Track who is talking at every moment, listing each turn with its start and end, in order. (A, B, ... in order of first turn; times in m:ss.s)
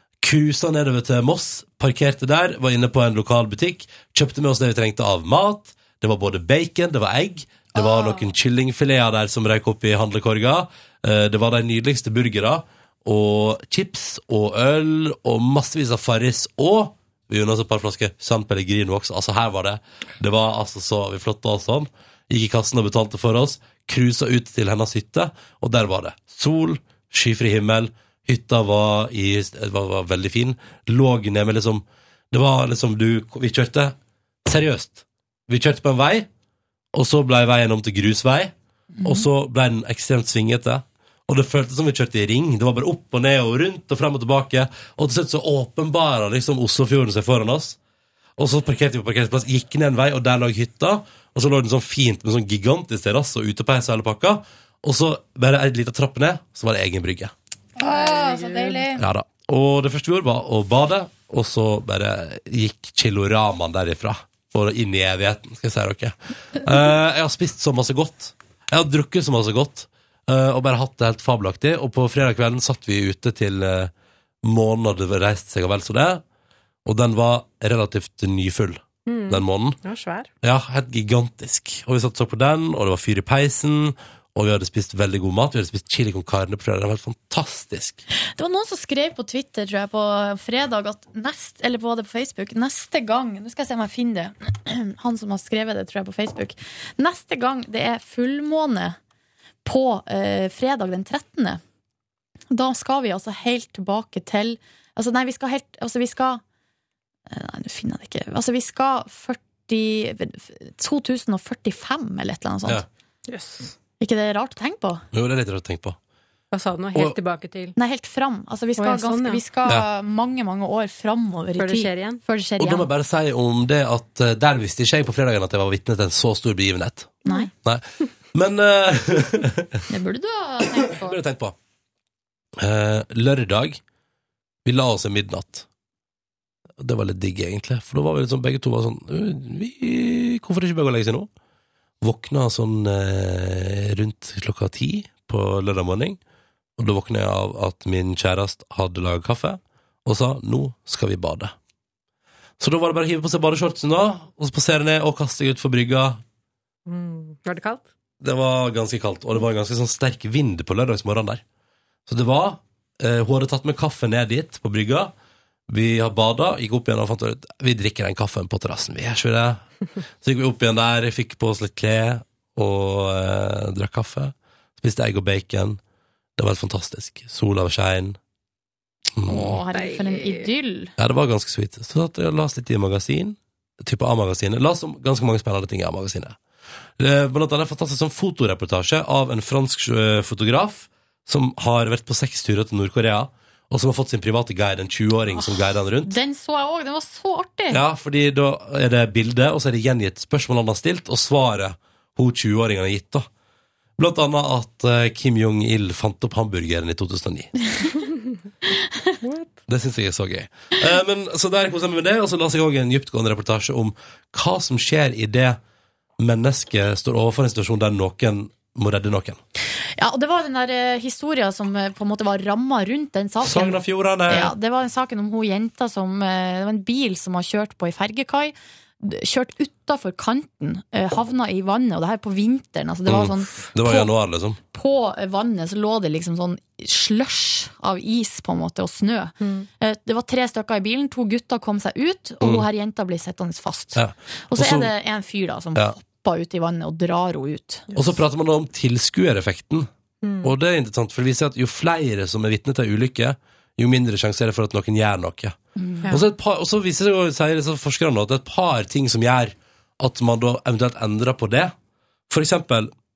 0:00.2-0:36.3 A
0:07.7-0:08.2 B
0:36.9-0:38.5 A
0:39.0-0:39.2 B
0:39.0-0:47.8 A
0:48.4-0:57.3 A
0:57.8-0:59.0 B
0:57.8-0:58.8 C
0:58.9-1:13.9 A
1:14.4-1:16.2 A
1:16.8-1:19.8 A
1:19.0-1:20.3 C
1:20.4-1:28.0 A
1:28.2-1:39.0 B
1:39.6-1:41.6 B
1:42.5-1:46.4 B
1:47.3-1:52.8 B
1:53.3-1:53.7 C
1:54.0-1:55.0 B
1:55.1-1:56.0 A
1:56.5-1:57.8 C
1:57.8-2:02.9 B
1:58.8-1:59.4 C
2:01.6-2:02.2 C
2:02.6-2:09.8 A
2:09.9-2:11.2 B
2:11.0-2:11.5 A
2:12.6-2:13.8 A
2:14.6-2:15.6 A
2:16.8-2:21.3 A
2:22.0-2:26.2 A
2:26.8-2:31.5 A
2:32.6-2:36.2 A
2:36.9-2:37.9 C
2:38.2-2:41.4 A
2:42.1-2:45.1 A
2:45.7-2:49.6 A
2:50.2-2:55.8 A
2:56.4-2:58.2 A
2:59.2-2:59.6 A
2:59.3-3:00.9 B
2:59.7-3:00.5 C
3:01.0-3:06.4 A
3:07.0-3:16.1 A
3:15.4-3:17.8 B
3:17.7-3:23.3 A
3:24.0-3:27.7 A
3:29.2-3:29.6 C
3:29.7-3:35.6 A
3:36.2-3:39.4 A
3:40.0-3:54.1 B
3:43.4-3:44.5 A
3:53.1-3:54.6 A
3:54.7-4:07.9 B
3:59.4-3:59.7 C
4:03.9-4:04.9 A
4:08.0-4:09.9 A
4:10.2-4:10.5 C
4:10.4-4:15.6 A
4:15.8-4:16.2 B
4:16.1-4:21.7 A
4:22.3-4:22.9 A